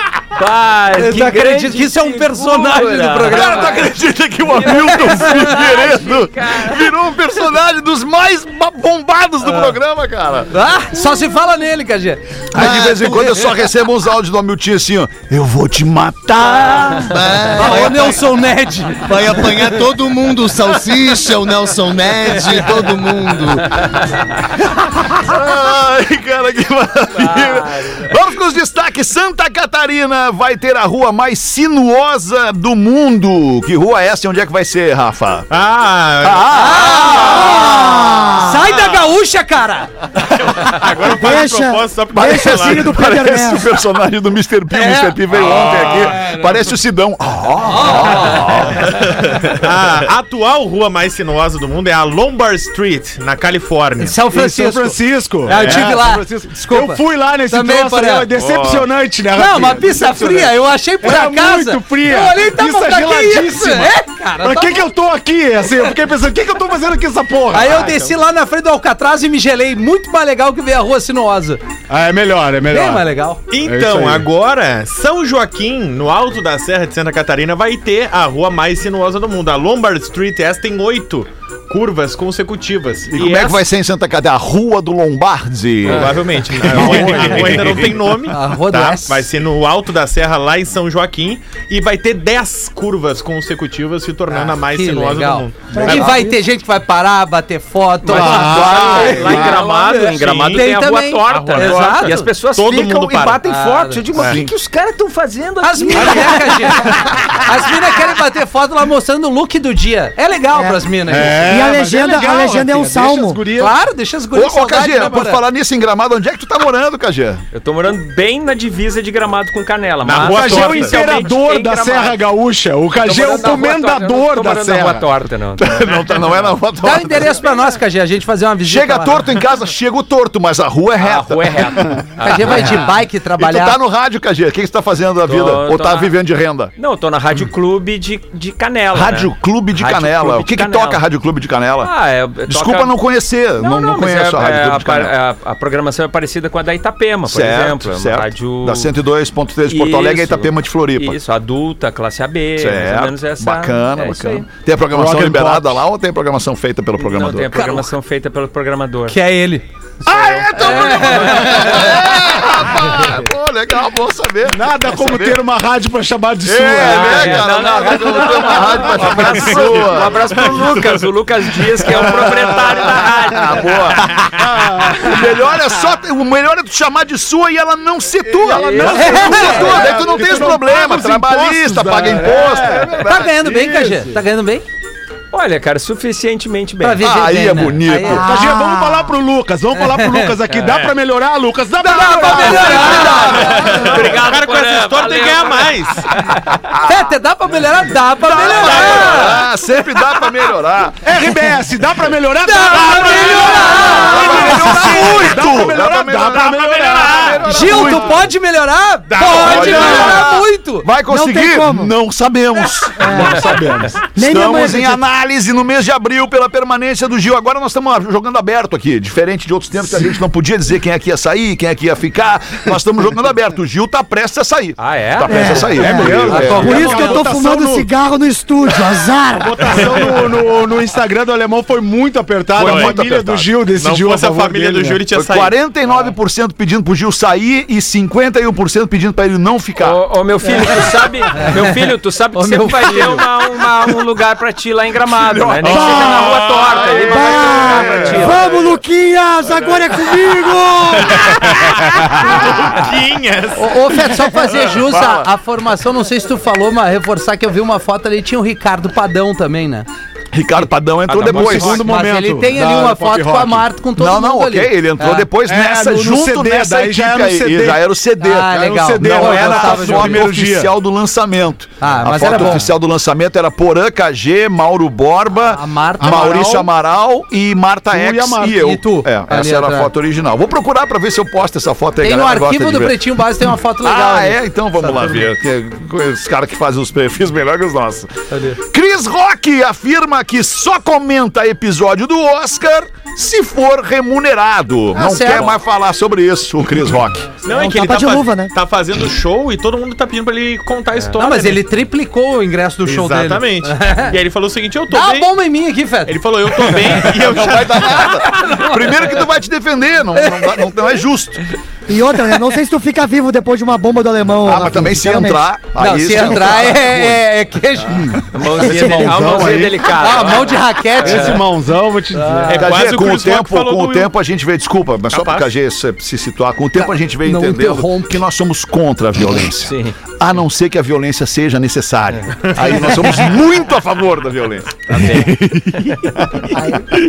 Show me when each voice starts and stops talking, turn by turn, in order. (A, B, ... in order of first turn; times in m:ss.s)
0:00.4-0:03.9 A
0:01.0-0:03.8 B
0:03.3-0:10.5 C
0:04.5-0:06.9 A
0:10.5-0:12.8 B
0:12.5-0:18.1 C
0:12.6-0:13.4 D
0:17.1-0:18.2 D
0:17.6-0:19.7 B
0:19.0-0:23.7 D
0:24.6-0:35.5 C
0:27.2-0:28.1 A
0:35.5-0:37.1 E
0:36.2-0:37.8 C
0:36.5-0:39.9 B
0:37.4-0:38.7 F
0:40.2-0:43.0 E
0:41.0-0:43.8 F
0:42.2-0:49.0 C
0:44.7-0:46.0 B
0:45.3-0:46.3 E
0:47.6-0:48.7 B
0:49.0-0:54.2 E
0:54.0-0:58.3 B
0:54.2-1:08.0 G
0:55.5-0:56.0 E
0:58.5-0:58.7 C
0:59.4-1:04.9 B
1:07.5-1:11.6 B
1:11.9-1:14.3 G
1:12.7-1:13.4 B
1:13.5-1:23.6 E
1:23.1-1:27.8 C
1:25.8-1:36.2 E
1:26.6-1:27.8 G
1:28.3-1:29.3 B
1:34.3-1:42.3 B
1:35.7-1:36.4 F
1:38.1-1:47.0 A
1:38.1-1:39.6 G
1:38.8-1:40.7 E
1:41.2-1:43.5 E
1:43.4-1:44.0 B
1:44.2-1:44.4 E
1:44.2-1:44.5 C
1:45.6-1:51.5 B
1:50.6-1:50.8 F
1:51.1-1:53.8 G
1:51.4-1:53.4 F
1:53.6-1:55.4 B
1:54.3-1:57.4 C
1:57.5-2:02.2 A
2:00.0-2:01.3 E
2:00.2-2:05.1 G
2:03.0-2:05.8 A
2:05.6-2:07.4 C
2:06.8-2:09.3 B
2:08.6-2:16.7 C
2:11.0-2:12.9 A
2:12.2-2:13.8 B
2:15.3-2:16.2 A
2:16.8-2:21.0 A
2:18.9-2:21.9 C
2:21.8-2:23.0 A
2:22.5-2:25.1 C
2:23.6-2:28.9 A
2:27.3-2:31.2 C
2:29.7-2:34.5 A
2:32.6-2:37.9 C
2:34.9-2:35.8 G
2:37.0-2:39.2 A
2:39.1-2:39.6 B
2:40.0-2:45.4 C
2:40.1-2:42.0 A
2:40.6-2:42.0 B
2:44.5-2:47.3 G
2:46.4-2:50.6 C
2:46.8-2:54.2 A
2:49.2-2:51.1 E
2:51.9-2:54.2 C
2:54.4-2:55.1 G
2:54.8-3:03.6 C
2:58.5-2:59.9 A
2:58.8-3:04.2 G
2:58.8-2:59.9 B
3:03.0-3:04.6 B
3:05.3-3:07.1 A
3:06.8-3:08.2 B
3:07.0-3:08.3 C
3:08.1-3:09.1 F
3:08.2-3:13.2 G
3:09.9-3:10.3 B
3:10.5-3:10.9 A
3:11.8-3:13.6 B
3:12.0-3:13.9 C
3:12.8-3:16.6 A
3:13.3-3:16.1 E
3:16.6-3:17.0 C
3:16.8-3:19.4 B
3:18.2-3:21.1 C
3:21.0-3:28.0 G
3:22.4-3:25.4 B
3:23.8-3:28.3 C
3:27.4-3:30.9 B
3:29.1-3:30.1 E
3:29.4-3:33.5 C
3:29.6-3:30.2 F
3:31.1-3:31.9 F
3:33.0-3:35.0 F
3:33.0-3:34.1 G
3:34.1-3:47.0 C
3:44.8-3:45.9 A
3:45.3-3:50.1 F
3:45.8-3:47.9 G
3:46.3-3:47.2 B
3:49.4-3:55.0 G
3:52.6-3:53.0 E
3:52.6-3:53.4 C
3:52.6-3:53.1 A
3:53.7-3:55.6 E
3:55.1-4:00.0 C
3:59.8-4:08.6 A
4:01.4-4:01.7 B
4:02.3-4:03.2 B
4:05.1-4:08.7 C
4:05.6-4:06.3 F
4:05.7-4:07.1 E
4:07.0-4:11.6 F
4:11.1-4:14.1 E
4:12.2-4:12.6 F
4:12.3-4:12.8 C
4:13.5-4:19.9 B
4:14.8-4:15.3 C
4:20.3-4:21.8 C
4:21.2-4:21.6 A
4:21.2-4:23.7 G
4:21.4-4:25.3 B
4:24.0-4:43.0 C
4:25.4-4:27.8 G
4:28.2-4:30.3 B
4:28.5-4:30.7 G
4:31.8-4:32.7 B
4:35.5-4:36.6 B
4:36.0-4:36.7 G
4:37.9-4:38.7 G
4:38.5-4:39.9 B
4:42.0-4:45.2 B
4:43.8-4:57.3 C
4:48.3-4:48.6 B
4:54.9-4:55.6 B
4:57.4-5:01.6 E
4:57.5-4:58.5 F
5:01.2-5:04.2 B
5:02.8-5:05.3 E
5:04.9-5:06.8 B
5:06.1-5:08.2 E
5:07.0-5:11.4 C
5:08.3-5:09.0 B
5:10.2-5:10.6 B
5:11.9-5:15.4 F
5:14.4-5:17.3 C
5:15.8-5:19.2 B
5:17.9-5:18.2 C
5:18.3-5:21.4 A
5:18.6-5:19.9 G
5:18.7-5:19.1 F
5:19.8-5:21.4 B
5:21.0-5:22.6 G
5:22.2-5:22.7 B
5:22.5-5:24.1 E
5:22.5-5:35.3 C
5:25.1-5:25.5 E
5:26.8-5:28.2 B
5:29.6-5:30.0 A
5:32.5-5:32.7 E
5:34.9-5:36.1 A